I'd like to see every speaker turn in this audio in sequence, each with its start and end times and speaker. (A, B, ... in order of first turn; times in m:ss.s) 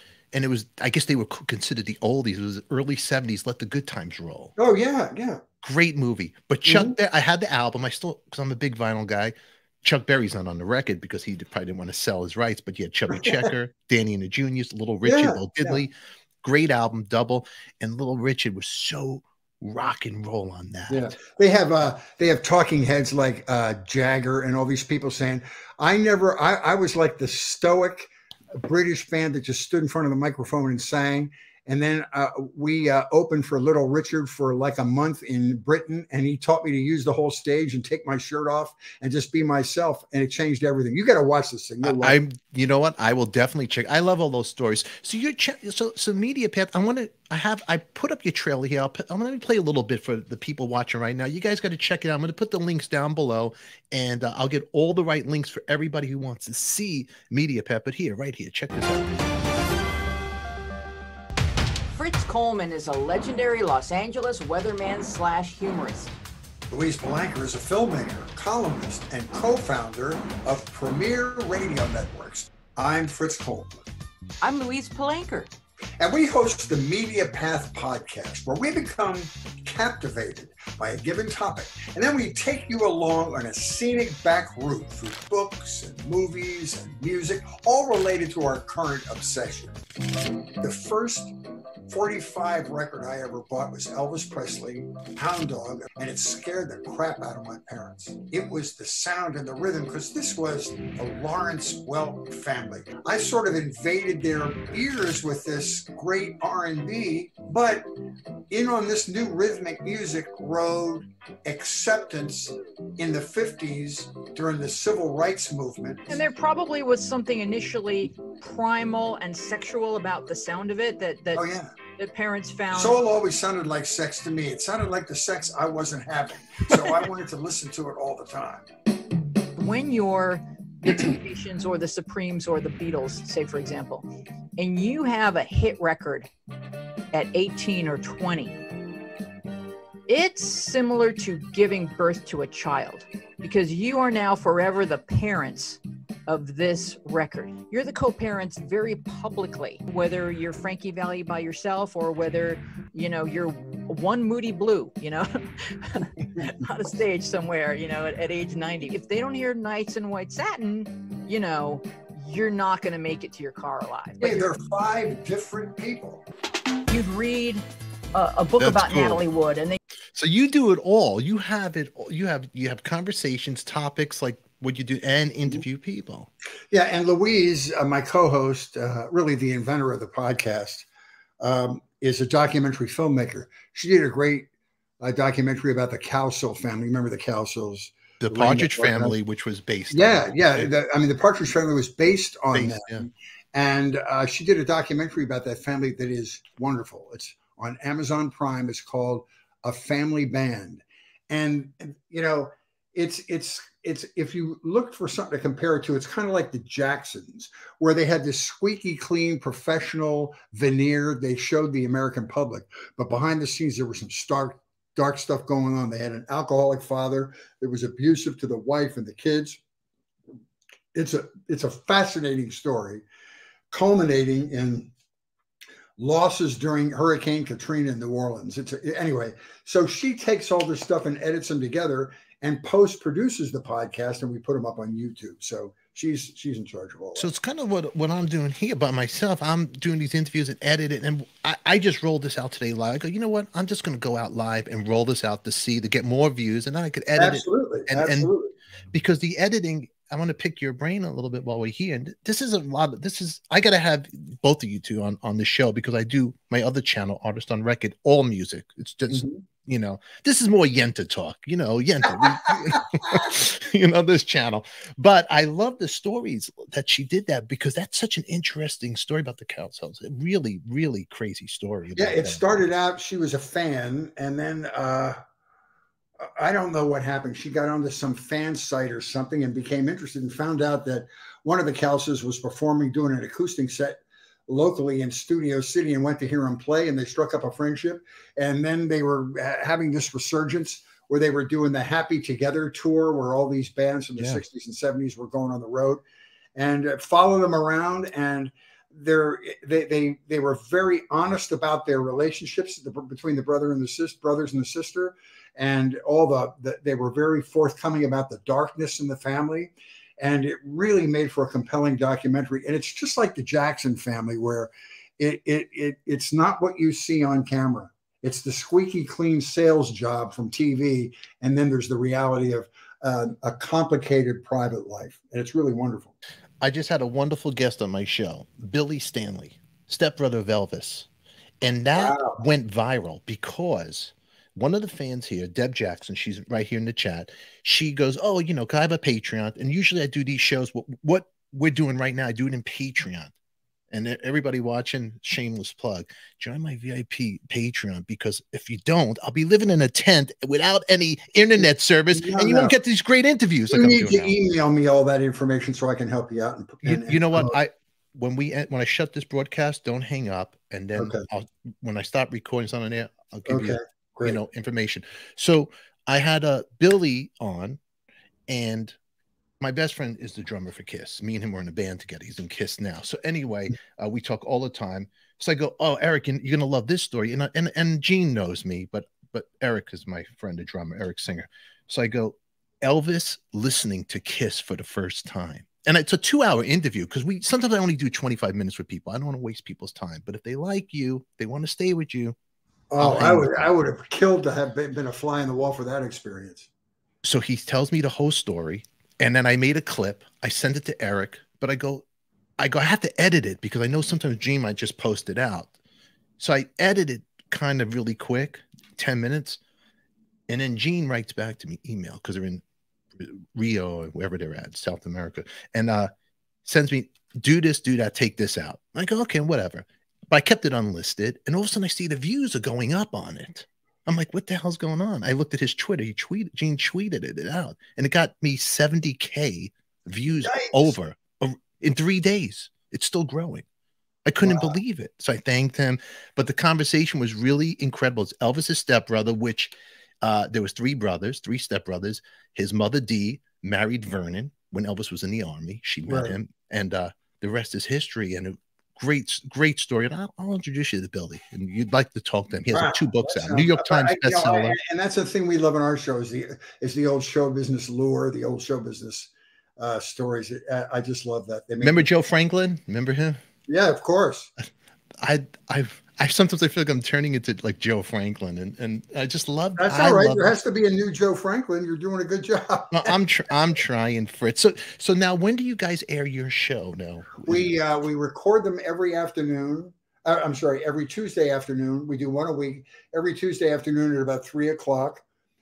0:00.3-0:04.5 A
0:04.6-0:05.4 B
0:05.6-0:21.2 A
0:06.6-0:07.0 B
0:13.1-0:13.5 B
0:15.0-0:15.8 B
0:20.9-0:42.2 B
0:41.8-0:59.2 A
1:01.9-1:06.1 C
1:06.7-1:13.9 B
1:14.4-1:15.5 C
1:16.0-1:29.8 B
1:30.6-1:31.4 B
1:31.9-1:47.9 B
1:48.5-1:56.2 B
1:56.1-2:03.0 C
2:01.3-2:01.7 B
2:02.7-2:08.7 B
2:09.6-2:16.3 C
2:17.1-2:18.6 C
2:20.1-2:35.3 C
2:35.8-2:44.5 C
2:44.2-2:46.2 B
2:46.9-2:49.8 C
2:48.6-2:49.2 A
2:50.1-2:56.3 A
2:56.7-3:00.9 B
3:01.4-3:04.5 B
3:05.0-3:09.2 B
3:08.2-3:10.7 A
3:09.9-3:39.6 B
3:12.5-3:13.1 A
3:40.9-3:43.0 B
3:43.7-3:44.9 B
3:46.0-3:57.3 B
3:57.2-4:08.3 A
4:07.2-4:08.5 B
4:08.9-4:32.6 A
4:19.1-4:19.4 B
4:22.0-4:23.2 B
4:32.0-4:35.2 B
4:36.2-4:56.0 B
4:56.5-5:26.1 B
5:26.6-5:31.1 A
5:31.6-5:43.3 A
5:31.9-5:32.4 B
5:43.9-5:54.3 A
5:51.6-5:52.7 B
5:53.7-5:57.6 B
5:56.8-6:07.8 A
6:01.0-6:01.2 B
6:03.4-6:04.4 B
6:08.5-6:09.0 A
6:09.6-6:32.4 A
6:32.9-6:36.7 B
6:33.0-6:33.7 A
6:37.2-6:42.0 A
6:42.6-6:45.7 A
6:46.4-6:49.6 A
6:50.5-6:52.6 A
6:53.2-6:56.1 A
6:56.6-7:13.6 A
7:10.4-7:10.9 B
7:14.2-7:34.8 A
7:14.4-7:14.8 B
7:26.1-7:26.4 B
7:32.7-7:42.1 B
7:41.8-7:43.4 A
7:43.7-7:44.5 B
7:45.2-7:50.6 A
7:49.8-7:53.1 B
7:52.9-7:57.7 A
7:57.4-8:05.2 B